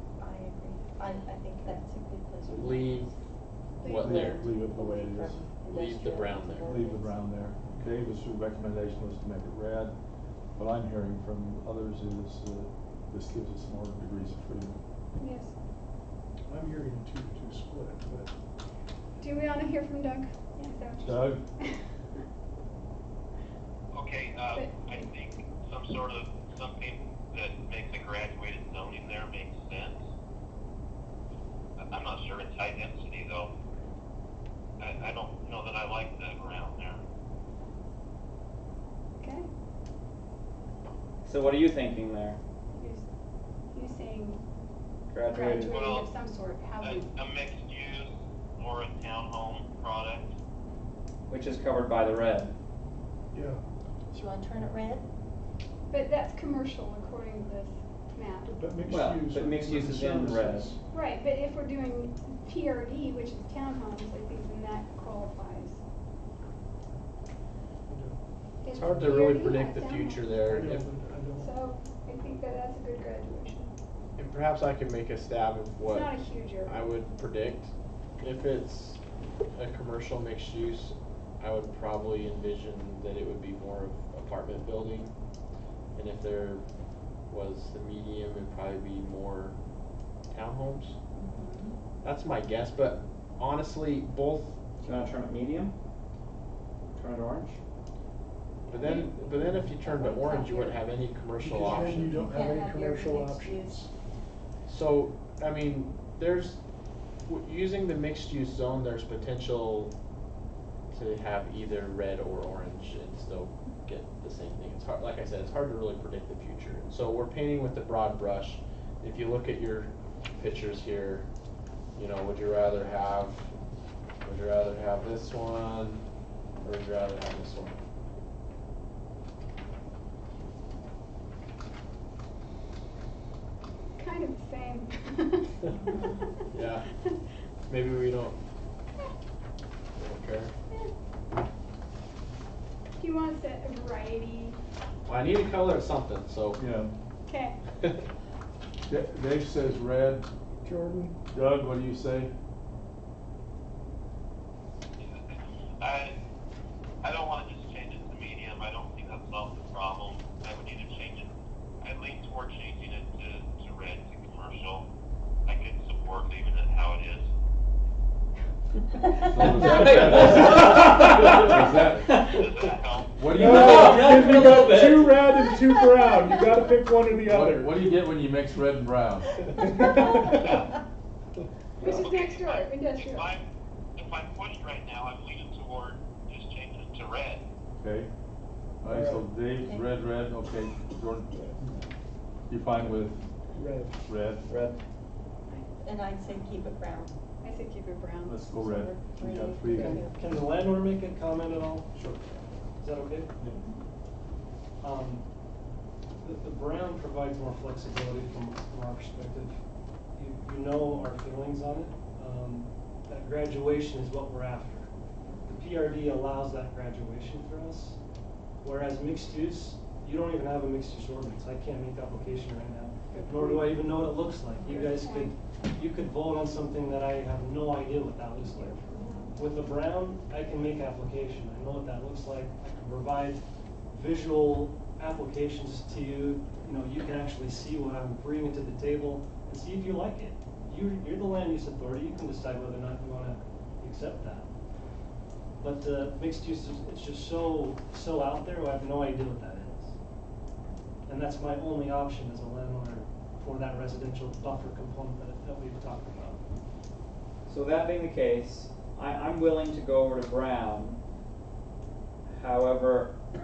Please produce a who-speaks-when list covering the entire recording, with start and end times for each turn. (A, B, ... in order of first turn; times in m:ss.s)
0:00.2-0:03.0 A
0:02.5-0:03.1 B
0:03.8-0:04.4 B
0:03.8-0:04.4 C
0:03.9-0:05.4 D
0:04.6-0:07.3 A
0:05.7-0:06.7 B
0:06.6-0:14.8 D
0:15.2-0:15.5 C
0:16.5-0:18.3 E
0:19.2-0:21.8 C
0:21.0-0:21.4 D
0:23.9-0:30.0 F
0:24.5-0:25.0 C
0:31.8-0:33.5 F
0:34.8-0:37.0 F
0:39.2-0:39.5 C
0:41.2-0:42.4 G
0:42.7-0:43.0 C
0:43.7-0:44.4 C
0:45.1-0:45.8 G
0:45.2-0:47.1 C
0:45.6-0:46.1 F
0:46.8-0:50.3 F
0:51.3-0:52.5 G
0:53.3-0:53.6 E
0:54.1-0:55.0 A
0:55.9-0:58.5 C
0:58.4-1:00.8 E
0:58.9-1:00.7 G
1:00.9-1:05.8 C
1:07.9-1:08.2 E
1:08.6-1:10.4 C
1:08.7-1:10.9 B
1:10.4-1:11.5 E
1:11.4-1:13.7 C
1:14.2-1:19.0 B
1:15.9-1:16.8 C
1:19.5-1:25.1 B
1:25.9-1:26.6 B
1:27.3-1:29.5 B
1:30.3-1:31.0 B
1:31.2-1:31.8 A
1:32.0-1:34.6 B
1:34.8-1:35.7 G
1:36.9-1:37.6 G
1:38.7-1:42.2 B
1:38.8-1:39.1 A
1:39.7-1:40.8 A
1:41.4-1:43.9 E
1:41.7-1:43.8 A
1:44.6-1:46.6 B
1:47.2-1:49.9 B
1:50.9-2:01.2 B
2:01.9-2:03.5 B
2:04.2-2:06.0 B
2:06.6-2:07.8 B
2:14.0-2:15.6 C
2:16.5-2:16.9 B
2:17.7-2:18.4 B
2:19.9-2:20.5 B
2:23.0-2:24.6 C
2:25.0-2:26.6 B
2:26.6-2:26.9 D
2:27.3-2:27.6 C
2:28.9-2:30.3 D
2:30.6-2:31.1 E
2:31.3-2:32.3 D
2:35.0-2:36.1 F
2:37.0-2:41.3 F
2:41.8-2:44.8 F
2:45.5-2:47.3 F
2:49.2-2:52.3 D
2:49.4-2:52.7 G
2:52.3-2:53.1 F
2:53.1-2:54.5 D
2:53.3-2:55.5 G
2:53.3-2:57.8 E
2:57.2-2:59.6 D
2:59.6-3:00.6 E
3:00.3-3:00.8 F
3:01.8-3:03.4 F
3:01.9-3:03.3 C
3:04.0-3:07.4 F
3:07.8-3:08.1 D
3:08.8-3:11.4 D
3:08.8-3:09.2 E
3:09.6-3:09.9 A
3:12.5-3:13.2 D
3:13.6-3:13.9 E
3:14.0-3:14.5 D
3:14.4-3:14.8 G
3:15.5-3:17.1 A
3:17.4-3:18.6 C
3:18.2-3:20.1 D
3:18.8-3:20.2 A
3:20.1-3:21.9 H
3:21.9-3:22.2 D
3:22.8-3:23.3 H
3:24.8-3:25.2 H
3:26.2-3:29.6 H
3:30.1-3:34.9 H
3:35.5-3:38.0 H
3:38.6-4:04.5 H
3:43.1-3:43.7 A
3:43.1-3:43.5 C
3:44.6-3:45.3 C
3:48.4-3:49.3 C
4:05.6-4:09.9 H
4:11.1-4:16.4 H
4:17.5-4:21.0 G
4:22.3-4:23.1 G